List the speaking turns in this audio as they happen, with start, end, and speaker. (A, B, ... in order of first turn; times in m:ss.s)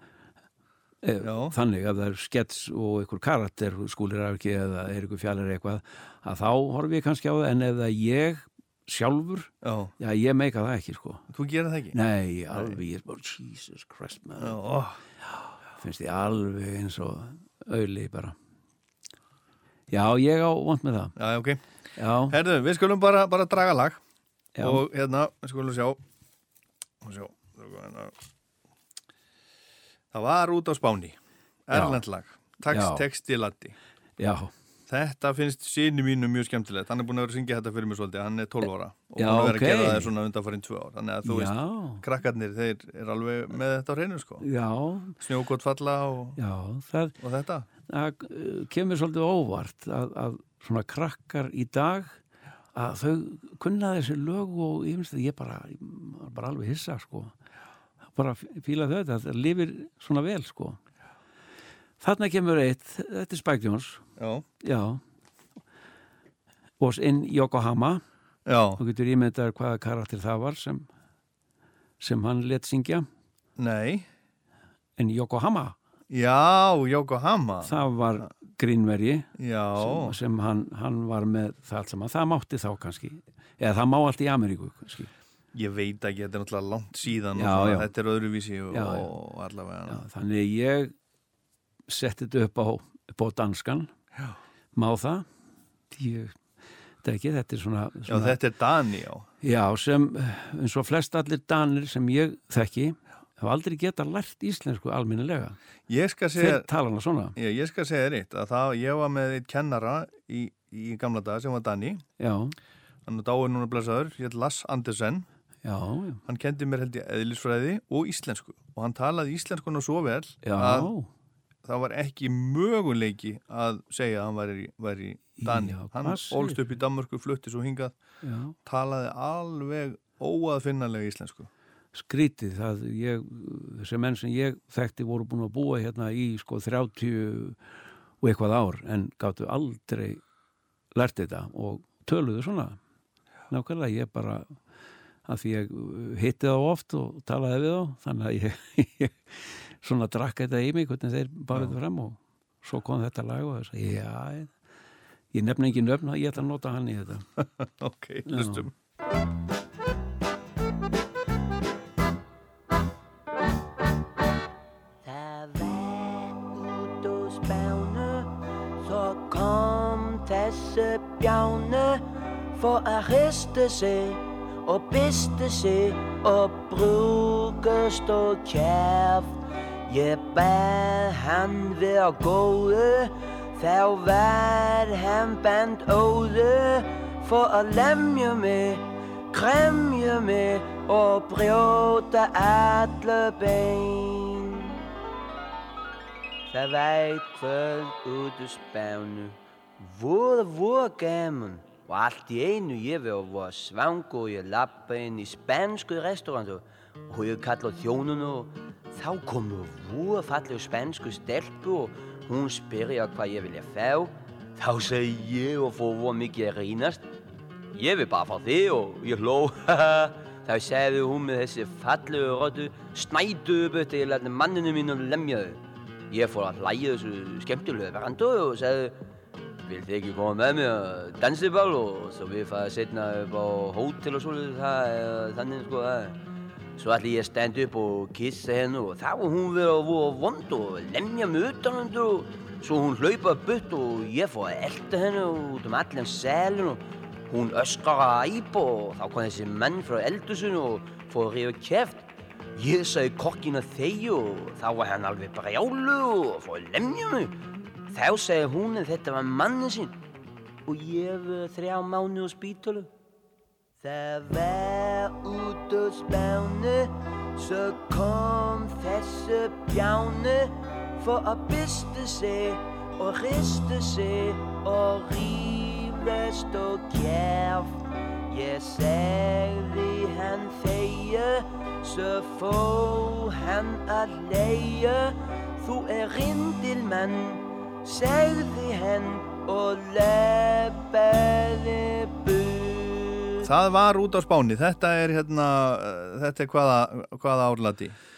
0:01.0-0:11.2 A
0:01.2-0:01.5 B
0:09.6-0:09.9 B
0:11.3-0:12.0 B
0:11.9-0:14.6 A
0:14.4-0:15.0 B
0:15.8-0:18.3 A
0:19.9-0:21.1 A
0:21.2-0:21.6 B
0:22.0-0:22.4 A
0:22.3-0:24.0 B
0:24.6-0:24.8 A
0:24.6-0:26.0 B
0:27.0-0:28.1 B
0:30.1-0:31.2 B
0:31.7-0:33.7 B
0:31.7-0:32.0 A
0:32.7-0:33.0 A
0:34.2-0:34.5 A
0:34.9-0:44.4 B
0:39.2-0:40.1 A
0:41.2-0:42.0 A
0:44.4-0:45.2 A
0:45.2-0:46.4 B
0:46.4-0:47.2 A
0:47.2-0:47.7 B
0:47.9-0:52.2 A
0:52.7-0:57.3 A
0:58.1-1:00.8 A
1:02.0-1:04.0 A
1:04.2-1:04.4 B
1:04.6-1:05.0 A
1:06.8-1:08.0 A
1:08.4-1:08.8 B
1:08.8-1:10.9 A
1:12.0-1:13.0 A
1:13.6-1:14.0 B
1:15.0-1:15.8 A
1:16.1-1:17.7 B
1:17.6-1:25.1 A
1:19.4-1:20.2 B
1:25.5-1:30.0 B
1:27.3-1:27.9 A
1:28.7-1:29.1 A
1:29.9-1:30.9 A
1:31.9-1:33.9 A
1:34.7-1:35.2 A
1:35.9-1:36.4 A
1:37.0-1:38.4 A
1:38.1-1:39.3 B
1:39.4-1:45.6 A
1:45.9-1:46.7 B
1:46.4-1:47.4 A
1:47.4-1:52.0 B
1:52.2-1:52.5 A
1:53.0-1:55.2 B
1:55.6-1:56.2 A
1:56.2-2:00.9 B
2:00.4-2:01.1 A
2:01.6-2:07.9 B
2:05.4-2:06.6 A
2:08.2-2:08.5 A
2:08.6-2:11.5 B
2:11.9-2:17.6 A
2:18.2-2:20.2 A
2:20.9-2:22.8 A
2:23.5-2:24.5 A
2:25.2-2:34.5 A
2:35.3-2:37.2 A
2:37.4-2:38.7 B
2:38.2-2:38.7 A
2:45.0-2:48.3 C
2:48.8-2:52.0 C
2:52.5-2:59.3 C
2:59.9-3:14.7 C
3:16.5-3:37.0 C
3:37.7-3:45.6 C
3:46.1-3:48.9 C
3:49.6-3:56.2 C
3:56.8-4:17.3 C
4:17.9-4:19.9 C
4:20.6-4:22.9 C
4:23.8-4:37.7 C
4:38.3-4:53.4 C
4:53.4-4:58.0 B